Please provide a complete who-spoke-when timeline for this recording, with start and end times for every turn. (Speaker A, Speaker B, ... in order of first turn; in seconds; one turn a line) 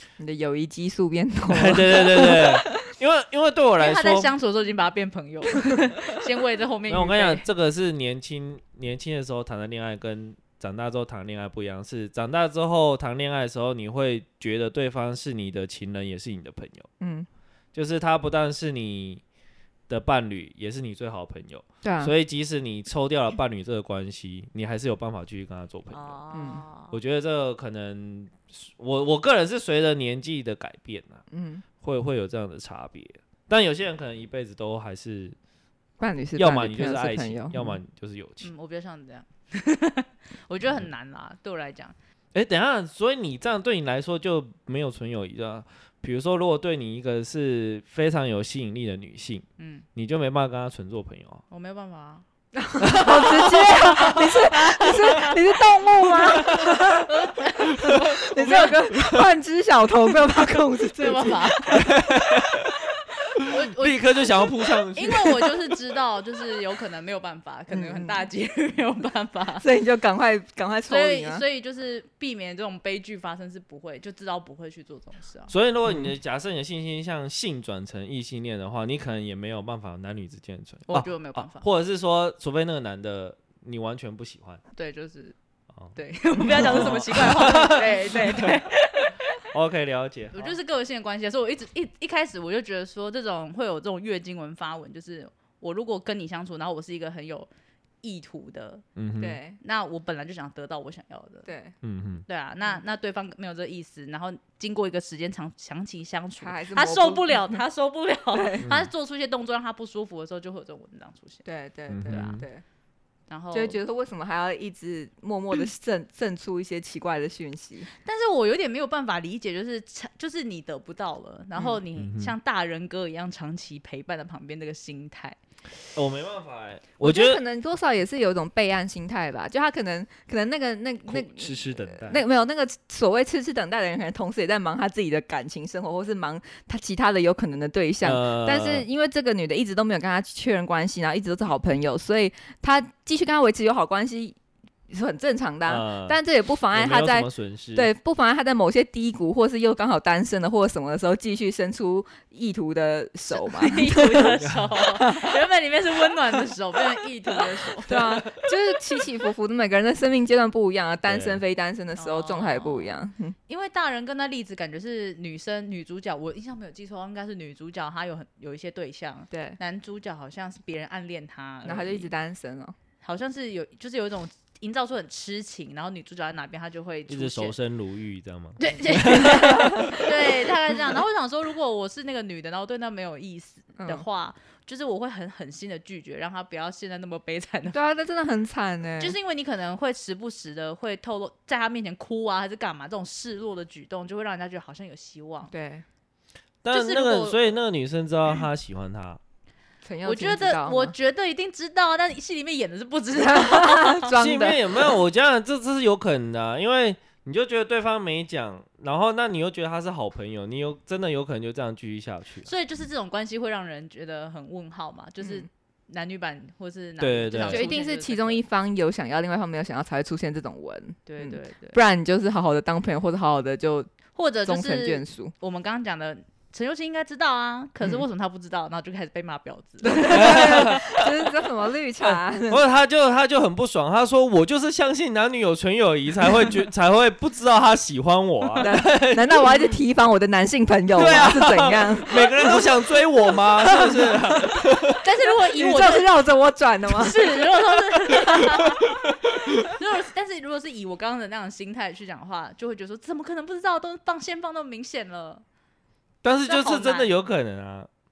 Speaker A: 0.2-2.7
Speaker B: 1.5-4.3
Speaker C: 3.8-7.4
Speaker B: 6.9-16.9
Speaker A: 17.0-17.3
Speaker B: 17.7-19.2
Speaker B: 19.9-26.2
Speaker A: 21.8-22.1
Speaker C: 25.9-26.9
Speaker A: 26.3-26.6
Speaker B: 26.9-31.2
Speaker A: 31.3-31.6
Speaker B: 31.8-35.4
Speaker A: 36.0-37.8
Speaker B: 36.4-38.5
Speaker C: 38.4-41.9
Speaker B: 42.3-51.4
Speaker C: 49.6-49.8
Speaker C: 51.5-52.2
Speaker A: 52.5-57.1
Speaker B: 52.8-54.2
Speaker C: 52.8-55.4
Speaker B: 56.2-56.8
Speaker C: 56.5-58.9
Speaker A: 57.8-61.5
Speaker B: 58.7-59.2
Speaker C: 61.0-61.9
Speaker B: 61.7-62.7
Speaker C: 63.3-64.4
Speaker B: 63.8-65.6
Speaker C: 64.9-69.6
Speaker A: 67.7-68.2
Speaker A: 69.6-71.4
Speaker C: 70.9-75.5
Speaker B: 75.5-84.6
Speaker A: 75.8-76.1
Speaker C: 80.9-81.6
Speaker C: 84.8-85.3
Speaker B: 85.8-88.6
Speaker C: 85.9-89.4
Speaker B: 89.5-90.5
Speaker C: 90.3-97.5
Speaker C: 98.0-98.8
Speaker B: 99.0-99.4
Speaker A: 99.2-99.6
Speaker C: 99.6-101.5
Speaker A: 101.5-101.7
Speaker B: 101.8-102.2
Speaker C: 102.2-111.4
Speaker A: 106.4-107.6
Speaker A: 108.3-108.7
Speaker B: 108.6-108.9
Speaker A: 111.4-112.6
Speaker B: 111.9-112.4
Speaker C: 112.1-112.4
Speaker C: 113.3-113.8
Speaker A: 113.5-117.9
Speaker C: 118.0-125.4
Speaker B: 121.9-122.3
Speaker B: 125.9-127.4
Speaker A: 127.0-144.4
Speaker B: 131.1-132.2
Speaker B: 138.0-138.8
Speaker A: 144.9-154.4
Speaker B: 145.7-146.2
Speaker B: 146.7-147.9
Speaker C: 153.3-158.2
Speaker B: 154.4-154.7
Speaker A: 155.0-155.3
Speaker A: 157.9-163.3
Speaker B: 161.1-161.4
Speaker C: 162.0-162.9
Speaker C: 163.5-172.1
Speaker A: 169.3-169.6
Speaker A: 171.6-172.7
Speaker C: 173.0-177.5
Speaker B: 177.1-180.5
Speaker C: 178.6-187.8
Speaker A: 187.7-189.1
Speaker C: 189.0-195.5
Speaker A: 195.5-195.8
Speaker B: 196.6-199.2
Speaker C: 196.7-197.4
Speaker A: 199.8-200.9
Speaker C: 200.0-204.1
Speaker A: 203.2-204.9
Speaker B: 204.1-212.5
Speaker C: 212.4-218.4
Speaker B: 217.0-217.7
Speaker A: 217.5-225.3
Speaker C: 221.1-221.8
Speaker C: 224.1-230.8
Speaker A: 229.8-232.6
Speaker B: 230.1-231.0
Speaker B: 232.1-239.3
Speaker A: 238.6-242.7
Speaker B: 240.9-245.0
Speaker A: 243.6-244.6
Speaker C: 245.0-246.1
Speaker A: 245.5-247.3
Speaker C: 247.0-255.4
Speaker B: 256.2-257.9
Speaker C: 256.4-257.1